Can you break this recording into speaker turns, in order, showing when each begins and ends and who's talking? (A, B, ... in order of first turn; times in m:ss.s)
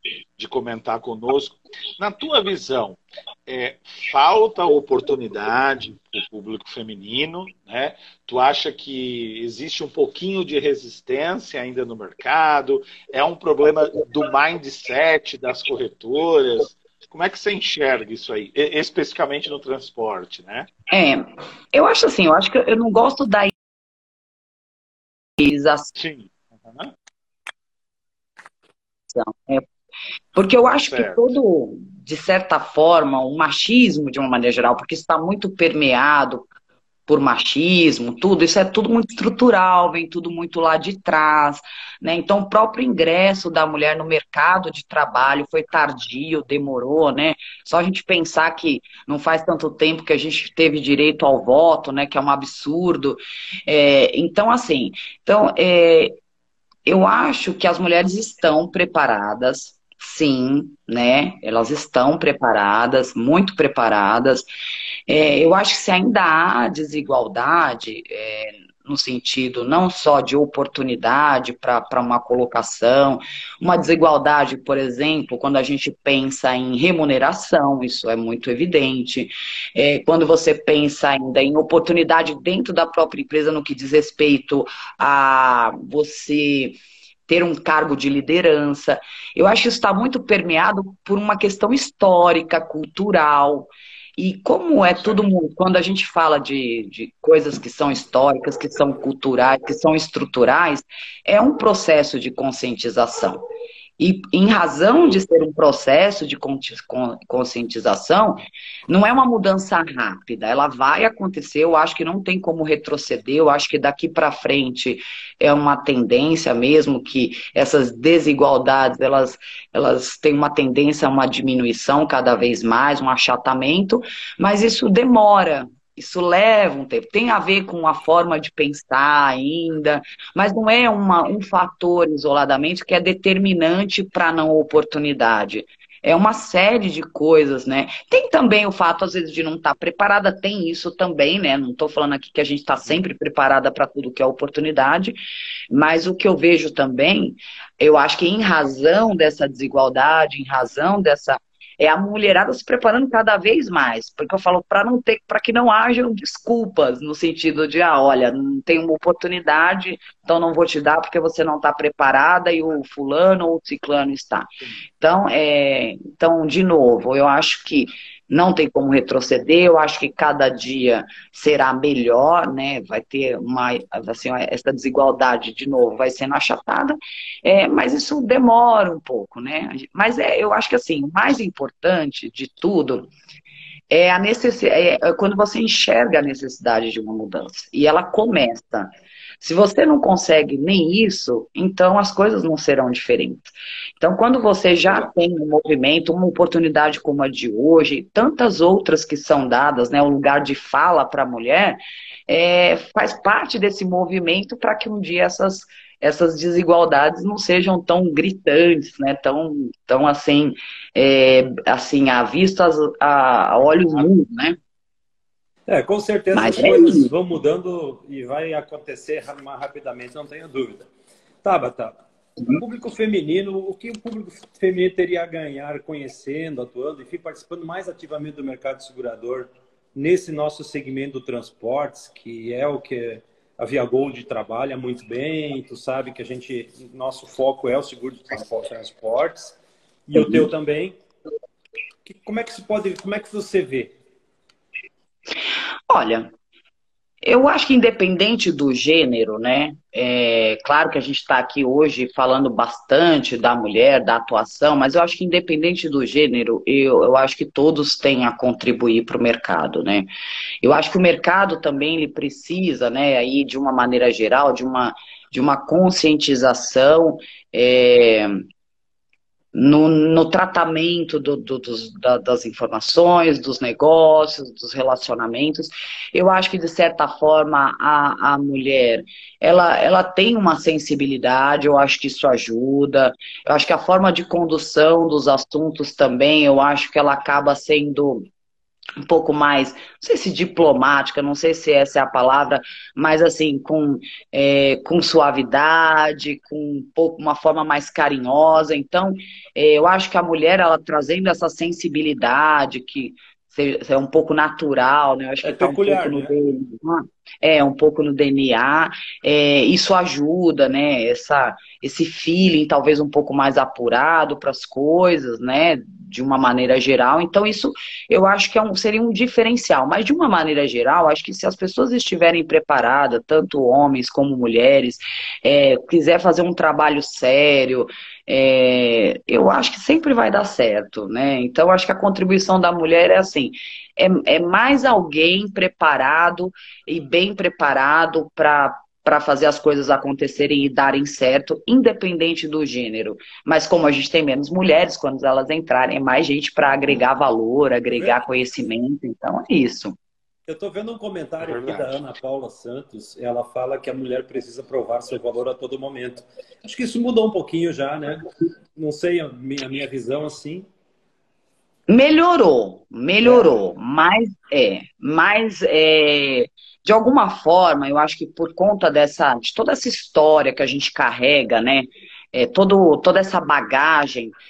0:00.4-0:20.7 A
0:20.9-0:23.5 B
0:25.4-0:25.9 B
0:26.0-0:26.9 A
0:29.1-0:29.6 B
0:30.3-0:36.5 B
0:30.8-0:31.2 A
0:37.1-0:56.2 B
0:56.8-1:04.4 B
1:05.1-1:43.4 B
1:44.0-2:25.2 B
2:25.7-2:44.5 B
2:45.0-3:03.1 B
3:03.9-3:13.5 B
3:14.0-3:34.6 B
3:35.7-3:40.9 C
3:36.3-3:37.1 B
3:41.4-3:41.9 C
3:42.5-3:59.6 C
4:00.1-4:00.9 C
4:00.1-4:00.4 B
4:02.0-4:03.9 C
4:05.9-4:06.3 B
4:07.2-4:20.1 B
4:20.6-4:28.4 B
4:29.5-4:48.2 B
4:49.0-5:50.0 B
5:05.4-5:06.3 C
5:50.5-6:00.7 C
5:51.4-5:52.0 A
6:01.9-6:14.3 B
6:03.2-6:03.5 C